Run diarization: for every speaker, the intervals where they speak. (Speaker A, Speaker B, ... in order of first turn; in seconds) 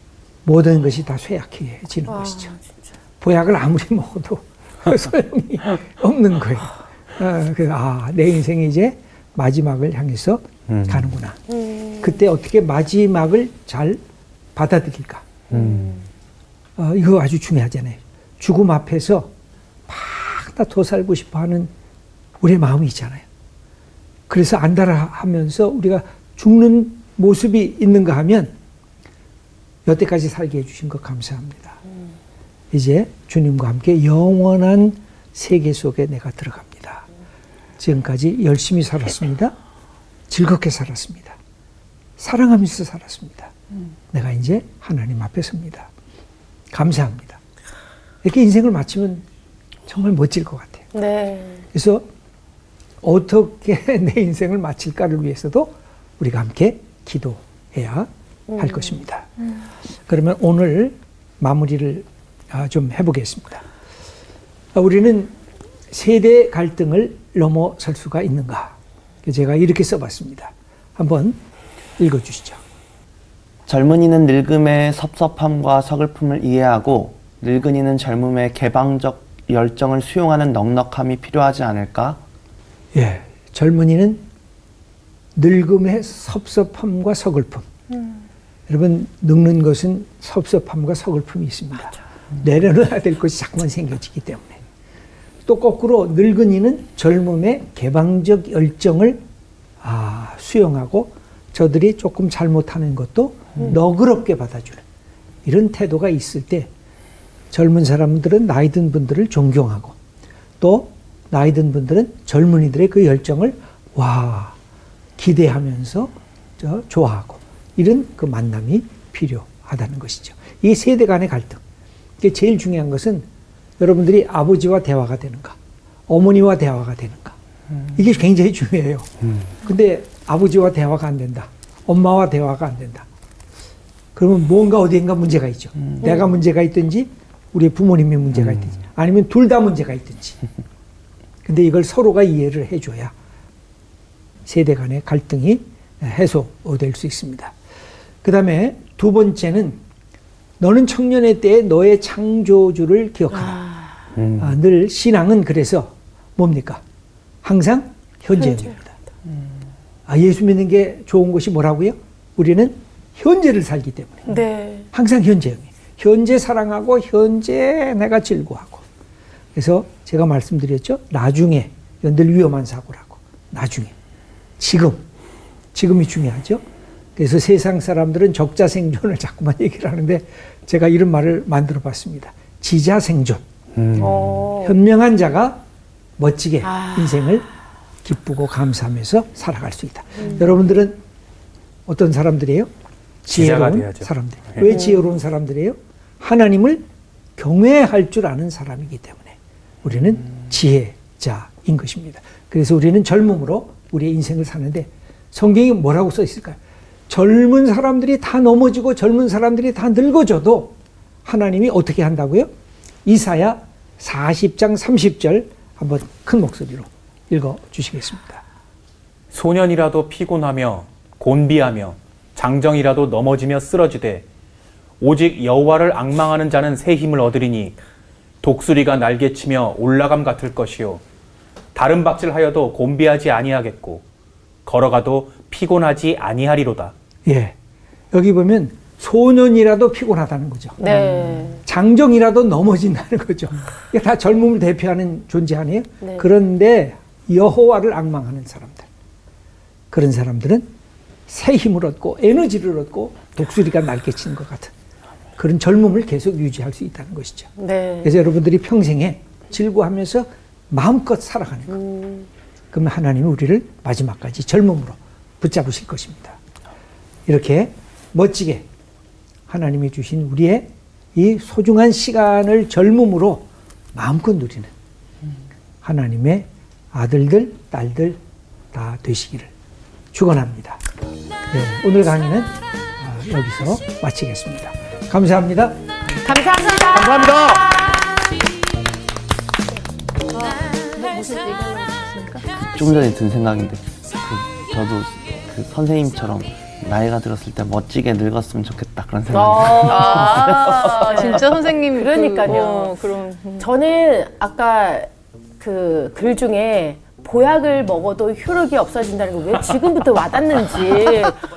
Speaker A: 0.4-2.5, 3.2-11.4, 12.0-14.0, 14.6-15.2, 16.8-19.3, 19.9-21.7, 22.4-23.2, 24.3-28.6, 29.9-31.8, 32.7-37.1, 37.8-39.5, 40.3-41.4, 42.2-43.5, 44.1-45.9, 46.7-47.4, 48.2-49.2, 49.9-50.9, 51.7-52.1, 53.0-59.3, 60.1-63.6, 64.7-65.4, 65.9-71.4, 72.0-72.6, 82.9-84.2, 85.4-87.7, 88.7-94.6, 95.5-99.2, 99.8-104.8, 105.5-106.7, 107.5-110.0, 110.6-114.6, 115.2-121.6, 122.2-123.3, 123.8-125.6, 126.1-127.4, 127.9-133.1, 134.2-140.4, 141.4-143.1, 144.4-147.5, 148.2-149.8, 150.6-153.7, 154.3-156.8, 157.4-159.0, 160.1-164.3, 164.9-168.8, 169.6-173.9, 174.6-175.0, 175.7-176.6, 177.2-183.4, 184.0-185.6, 186.2-187.5, 188.0-191.0, 191.9-192.7, 193.2-196.9, 197.4-212.5, 213.1-218.4, 237.2-237.6, 238.1-248.9, 249.9-250.7, 251.3-254.7, 255.4-257.5, 258.0-261.8, 262.7-266.4, 267.3-268.7, 269.5-274.7, 275.8-278.2, 278.7-279.5, 280.1-280.8, 281.5-285.8
Speaker B: 2.1-2.8, 11.6-12.0, 15.5-16.0, 50.9-51.6, 58.5-59.0, 164.3-164.9, 184.0-184.7, 186.7-187.1, 240.8-241.6, 257.6-258.1, 261.7-262.3, 286.2-288.1, 299.3-302.9, 303.6-311.4
Speaker C: 10.7-11.1, 15.5-15.9, 154.2-154.5, 183.8-184.4, 193.3-194.6, 219.3-224.2, 225.0-227.8, 228.4-231.0, 231.8-234.0, 234.7-236.9
Speaker D: 73.7-82.2, 292.5-301.3
Speaker E: 290.9-292.4, 299.7-303.7